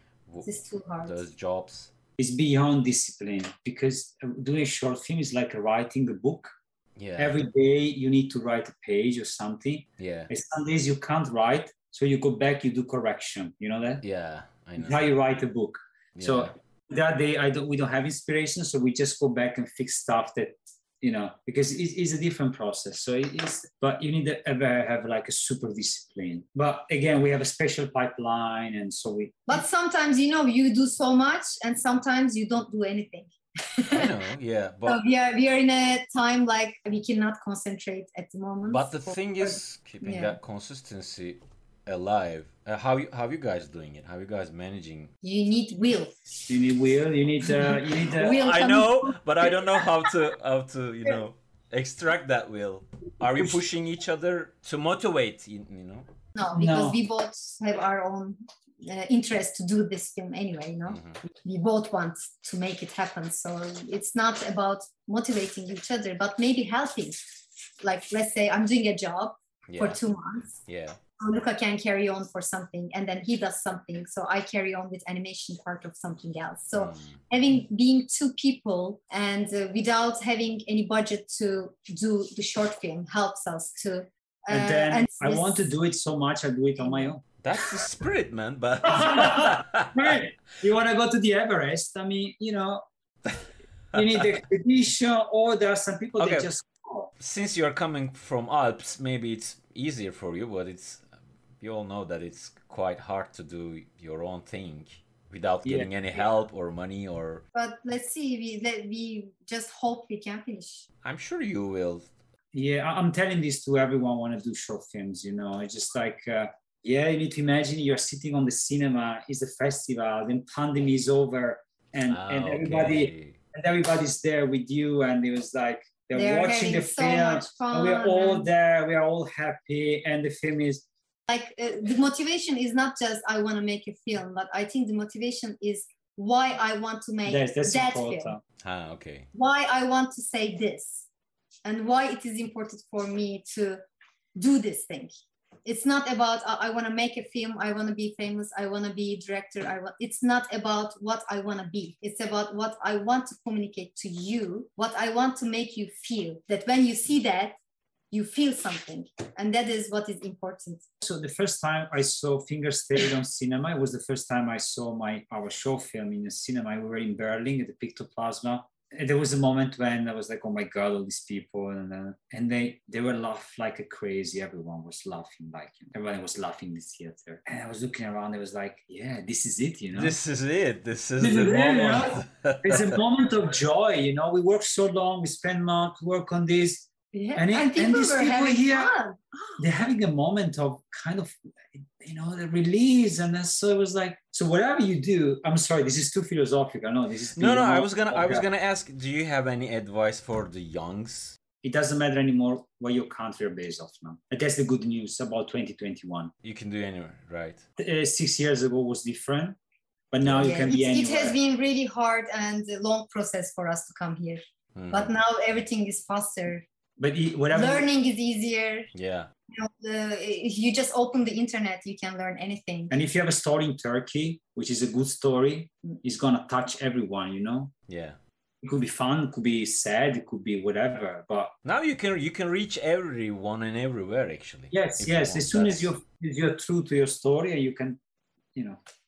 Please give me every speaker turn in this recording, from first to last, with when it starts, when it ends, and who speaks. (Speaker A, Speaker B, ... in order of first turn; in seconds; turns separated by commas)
Speaker A: 0.4-1.2, Speaker B: 1.0-1.9, Speaker C: 2.2-6.5, Speaker B: 7.0-7.4, Speaker C: 7.2-14.0, Speaker B: 10.0-10.3, Speaker B: 14.0-15.0, Speaker C: 14.8-29.6, Speaker B: 16.1-16.5, Speaker A: 29.5-34.1, Speaker B: 33.8-35.0, Speaker A: 34.9-40.4, Speaker B: 38.7-45.1, Speaker A: 45.2-46.1, Speaker C: 46.5-48.5, Speaker A: 47.7-49.8, Speaker B: 48.1-56.1, Speaker A: 56.3-67.2, Speaker C: 56.6-57.0, Speaker B: 60.9-61.2, Speaker A: 67.8-70.6, Speaker B: 69.7-70.0, Speaker B: 70.7-71.0, Speaker A: 71.2-85.7, Speaker B: 76.7-77.2, Speaker C: 84.5-87.2, Speaker A: 86.8-87.1, Speaker B: 87.4-90.0, Speaker C: 88.8-92.8, Speaker C: 93.9-97.1, Speaker B: 96.2-96.5, Speaker B: 97.2-101.0, Speaker B: 101.6-107.4, Speaker C: 105.6-106.2, Speaker A: 107.5-110.8, Speaker B: 111.0-112.1, Speaker C: 112.5-130.8, Speaker B: 122.1-123.4, Speaker A: 126.1-128.5, Speaker A: 131.3-138.3, Speaker C: 137.3-138.4, Speaker B: 138.6-139.3, Speaker A: 139.3-141.1, Speaker A: 141.6-143.8, Speaker A: 144.3-145.1, Speaker A: 145.6-157.6, Speaker A: 158.1-160.8, Speaker C: 161.0-180.2, Speaker B: 179.9-183.0, Speaker C: 181.2-188.9, Speaker A: 187.1-189.6, Speaker C: 189.6-191.3, Speaker C: 192.0-198.4, Speaker B: 197.3-201.4, Speaker C: 201.6-206.3, Speaker B: 206.4-207.6, Speaker C: 207.8-209.6, Speaker C: 210.1-211.4, Speaker A: 210.3-216.6, Speaker B: 214.7-215.1, Speaker C: 217.0-217.9, Speaker A: 217.5-218.9, Speaker B: 218.9-219.3, Speaker A: 219.5-222.9, Speaker C: 222.9-227.7, Speaker B: 227.9-228.2, Speaker C: 228.6-231.5, Speaker B: 231.6-235.9, Speaker C: 234.7-238.0